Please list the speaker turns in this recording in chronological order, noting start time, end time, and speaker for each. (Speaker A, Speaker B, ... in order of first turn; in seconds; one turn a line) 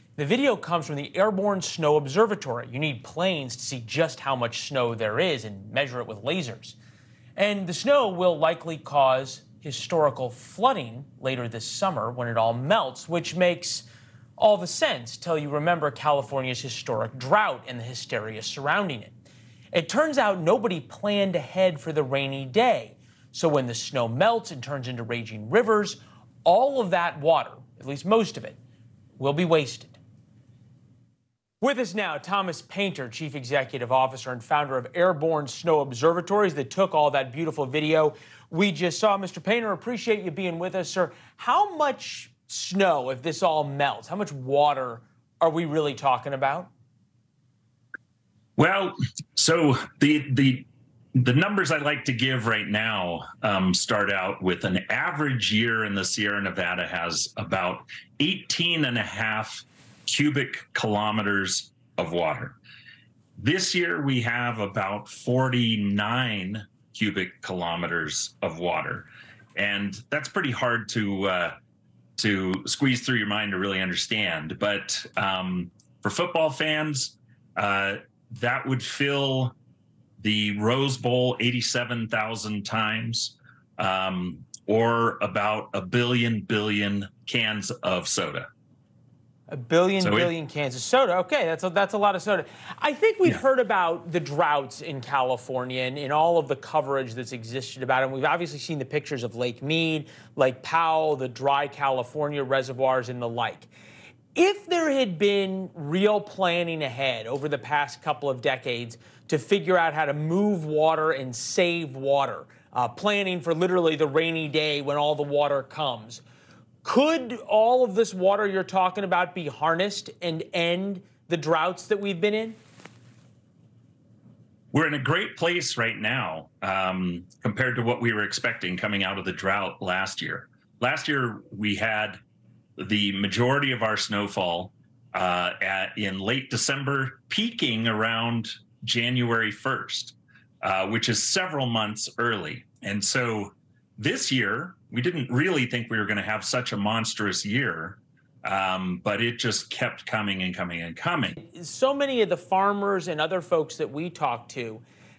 Speaker A: 0.2-6.8
Speaker A: 7.4-13.9
Speaker A: 14.4-19.1
Speaker A: 19.7-28.6
Speaker A: 29.2-30.0
Speaker A: 31.6-46.7
Speaker B: 48.6-62.6
Speaker B: 63.4-71.5
Speaker B: 72.2-79.6
Speaker B: 80.2-88.5
Speaker A: 89.5-103.7
Speaker B: 90.0-90.3
Speaker A: 104.3-116.2
Speaker A: 116.8-122.6
Speaker B: 124.7-132.2
Speaker B: 132.8-151.4
Speaker A: 151.4-154.8